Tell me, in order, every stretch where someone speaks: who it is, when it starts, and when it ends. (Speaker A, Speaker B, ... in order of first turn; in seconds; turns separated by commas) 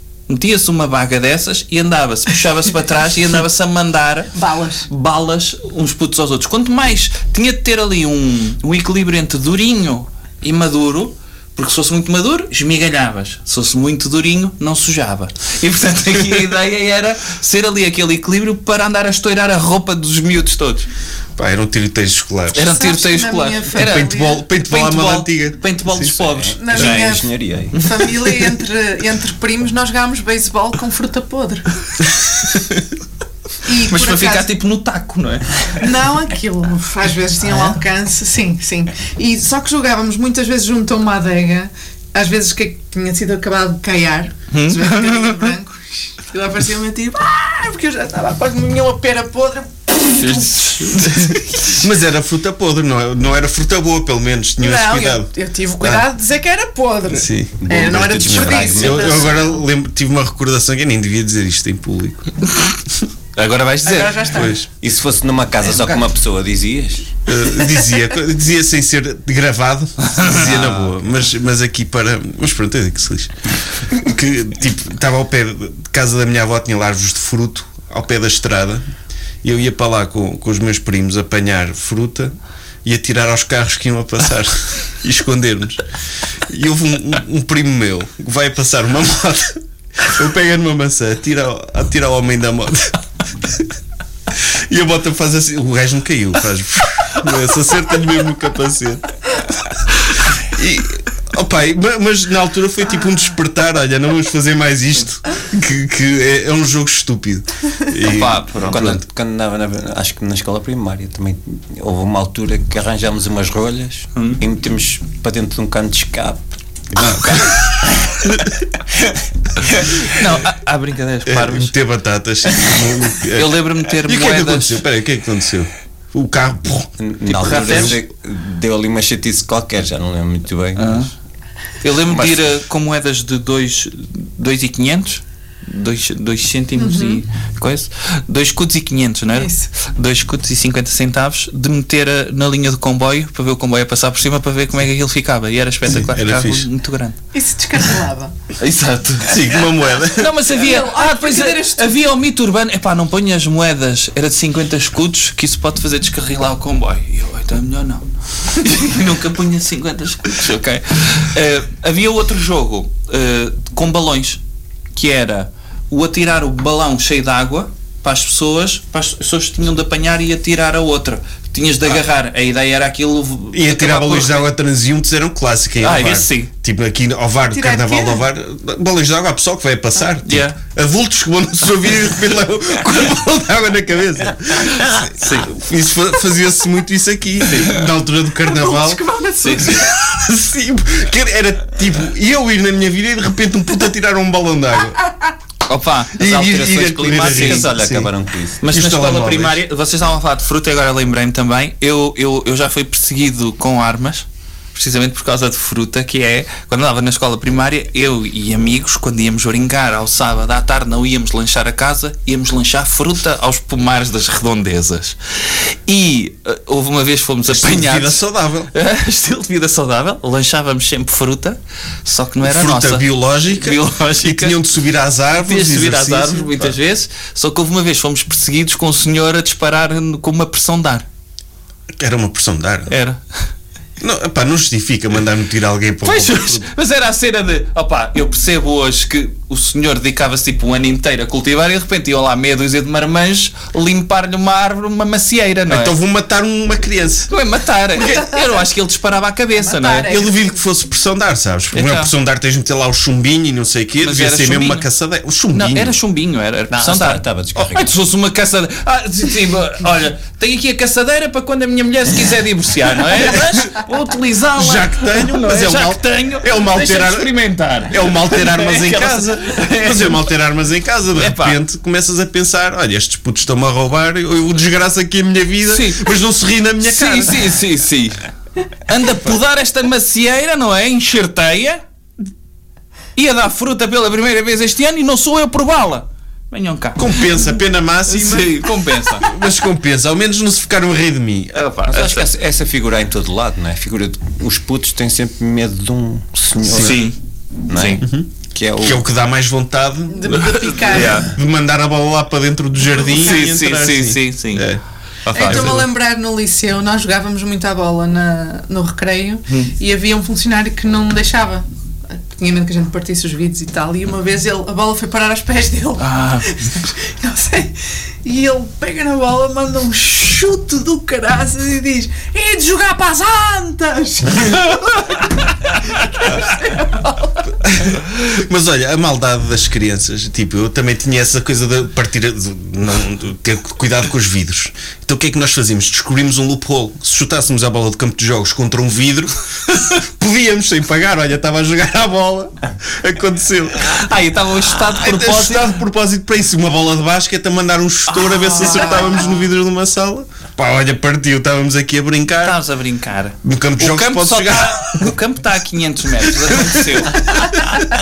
Speaker A: 0.3-4.3, Speaker B: 4.3-4.9, Speaker A: 4.9-20.9, Speaker C: 21.4-22.6, Speaker A: 22.5-27.2, Speaker B: 22.5-24.4, Speaker C: 23.7-26.1, Speaker D: 26.1-27.7, Speaker B: 26.6-31.7, Speaker A: 27.7-28.5, Speaker B: 33.6-34.5, Speaker A: 33.9-35.9, Speaker B: 35.8-51.7, Speaker A: 37.5-37.8, Speaker A: 44.5-45.5, Speaker A: 50.1-51.6, Speaker C: 51.7-56.0, Speaker B: 54.6-59.6, Speaker C: 57.1-57.6, Speaker D: 57.6-59.4, Speaker C: 58.1-62.4, Speaker A: 63.4-64.5, Speaker B: 63.8-64.6, Speaker C: 64.3-64.7, Speaker D: 64.7-67.1, Speaker B: 65.7-66.0, Speaker C: 67.2-73.3, Speaker A: 70.1-71.0, Speaker C: 73.9-78.8, Speaker C: 79.4-82.3, Speaker C: 82.8-85.8, Speaker C: 86.5-93.7, Speaker C: 94.3-99.1, Speaker C: 100.4-109.0, Speaker A: 108.0-109.0, Speaker D: 108.6-118.2, Speaker A: 114.1-114.4, Speaker C: 117.0-117.6, Speaker D: 119.0-120.1, Speaker A: 120.1-121.7, Speaker C: 121.2-127.9, Speaker A: 123.3-124.8, Speaker D: 127.0-131.1, Speaker A: 127.3-128.0, Speaker A: 130.8-131.1, Speaker A: 131.8-147.2, Speaker D: 132.1-132.6, Speaker B: 136.8-137.2, Speaker B: 139.3-139.7, Speaker C: 145.9-146.7, Speaker B: 147.3-148.3, Speaker A: 148.6-149.4, Speaker C: 149.3-150.4, Speaker A: 150.1-164.4, Speaker B: 150.5-151.9, Speaker A: 164.9-174.5, Speaker C: 173.5-189.0, Speaker A: 175.8-176.5, Speaker B: 177.5-178.2, Speaker A: 180.2-180.6, Speaker A: 185.0-185.5, Speaker A: 187.5-187.8, Speaker B: 188.4-189.8, Speaker A: 189.4-189.8, Speaker C: 189.6-195.0, Speaker A: 195.7-197.8, Speaker C: 196.2-198.1, Speaker D: 196.2-198.6, Speaker A: 198.6-224.6, Speaker C: 198.7-199.6, Speaker C: 217.5-218.7, Speaker C: 222.4-226.8, Speaker A: 225.4-231.1, Speaker C: 232.0-232.9, Speaker A: 232.9-233.2, Speaker C: 234.0-236.7, Speaker A: 236.0-246.0, Speaker C: 245.7-247.3, Speaker A: 247.3-250.1, Speaker B: 248.0-248.6, Speaker B: 249.6-250.5, Speaker C: 250.1-255.9, Speaker A: 251.7-252.1, Speaker A: 254.0-254.9, Speaker A: 255.5-270.3, Speaker D: 256.7-257.9, Speaker C: 264.6-267.3, Speaker C: 267.9-277.6, Speaker A: 271.1-271.6, Speaker A: 275.7-276.1, Speaker A: 276.8-278.2, Speaker A: 278.9-281.8, Speaker A: 283.1-287.4, Speaker C: 286.9-291.7, Speaker A: 288.1-289.3, Speaker A: 291.5-292.3, Speaker D: 291.9-297.1, Speaker A: 296.7-297.1, Speaker C: 296.7-297.0, Speaker D: 297.7-299.0, Speaker A: 297.7-298.0, Speaker C: 298.0-304.8, Speaker B: 300.1-301.3, Speaker A: 300.3-301.3, Speaker B: 302.9-303.5, Speaker A: 303.0-304.7, Speaker D: 305.3-305.8, Speaker B: 305.3-325.3, Speaker C: 305.4-305.9, Speaker A: 305.4-305.7, Speaker A: 316.0-316.5, Speaker B: 326.2-327.5, Speaker C: 327.6-344.0, Speaker A: 343.8-345.7, Speaker C: 344.9-352.6, Speaker A: 348.1-349.4, Speaker B: 348.9-349.3, Speaker A: 352.4-357.5, Speaker C: 353.4-355.1, Speaker C: 356.5-357.8